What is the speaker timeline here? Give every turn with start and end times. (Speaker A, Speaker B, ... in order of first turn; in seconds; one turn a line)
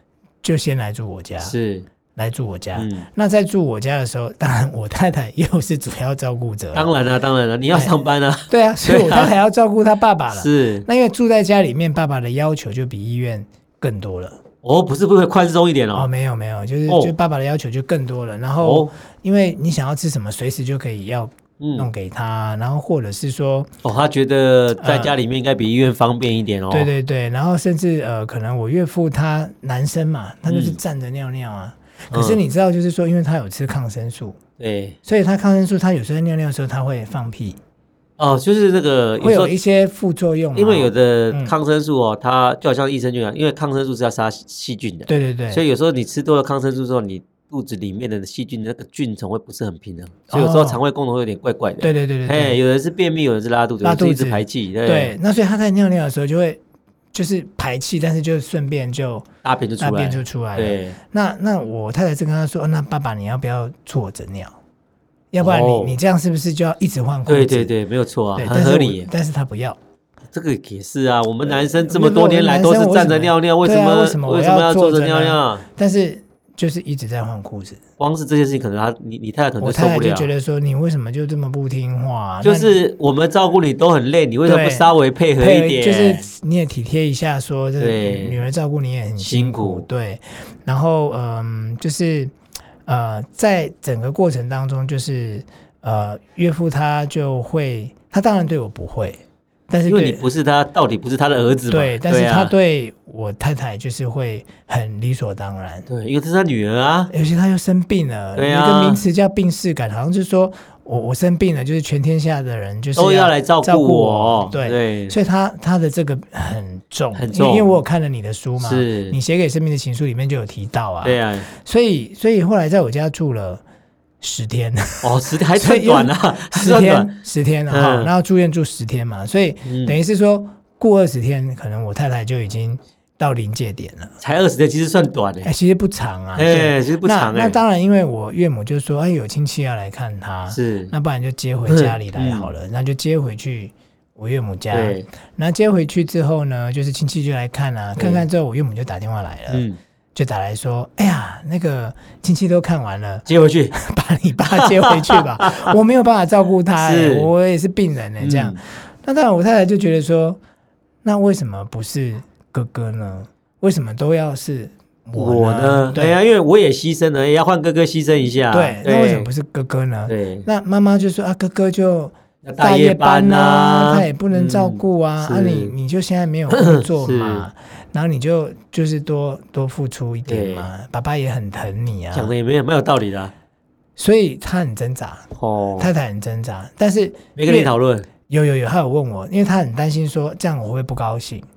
Speaker A: 0.4-1.5
Speaker B: 1.4-1.9
Speaker A: 2.1-6.9
Speaker B: 2.7-3.1
Speaker B: 6.7-9.3
Speaker A: 8.5-14.4
Speaker B: 10.3-10.8
Speaker B: 14.6-16.1
Speaker A: 15.9-23.7
Speaker B: 16.9-17.1
Speaker B: 18.6-18.9
Speaker B: 21.6-21.9
Speaker B: 23.8-26.9
Speaker A: 24.8-25.1
Speaker A: 26.7-34.4
Speaker B: 30.5-30.8
Speaker B: 32.1-32.4
Speaker B: 34.6-35.0
Speaker A: 35.0-37.6
Speaker B: 38.2-39.6
Speaker A: 39.2-41.5
Speaker B: 40.5-55.1
Speaker A: 45.1-45.6
Speaker A: 50.3-50.8
Speaker A: 51.8-52.6
Speaker A: 53.8-56.6
Speaker A: 57.1-59.2
Speaker B: 59.4-61.0
Speaker A: 59.8-64.5
Speaker A: 65.3-67.7
Speaker B: 65.4-66.0
Speaker B: 67.3-69.1
Speaker A: 68.3-69.8
Speaker B: 70.3-75.6
Speaker A: 71.4-77.8
Speaker B: 78.0-80.3
Speaker A: 79.6-82.8
Speaker B: 82.4-86.3
Speaker A: 84.4-92.3
Speaker B: 87.8-88.5
Speaker B: 89.2-89.9
Speaker A: 92.8-100.2
Speaker B: 99.9-102.5
Speaker A: 101.7-105.9
Speaker B: 105.9-107.1
Speaker A: 107.1-123.6
Speaker B: 108.3-109.0
Speaker B: 112.9-115.2
Speaker B: 117.1-117.8
Speaker B: 118.6-119.2
Speaker B: 121.0-121.5
Speaker A: 124.2-134.1
Speaker B: 125.0-128.1
Speaker B: 129.6-130.0
Speaker B: 134.2-135.5
Speaker A: 135.4-160.4
Speaker B: 136.3-137.6
Speaker B: 140.5-140.9
Speaker B: 141.7-142.5
Speaker B: 144.7-145.1
Speaker B: 147.9-148.2
Speaker B: 149.5-149.8
Speaker B: 153.2-153.8
Speaker B: 154.6-155.7
Speaker B: 156.7-157.3
Speaker B: 158.2-158.6
Speaker A: 161.0-166.2
Speaker B: 165.1-169.3
Speaker A: 168.5-182.3
Speaker B: 170.1-170.5
Speaker B: 172.4-175.7
Speaker B: 176.5-177.4
Speaker B: 180.3-180.7
Speaker B: 182.1-183.3
Speaker A: 184.0-187.7
Speaker B: 185.3-185.9
Speaker B: 187.3-188.1
Speaker A: 188.3-191.4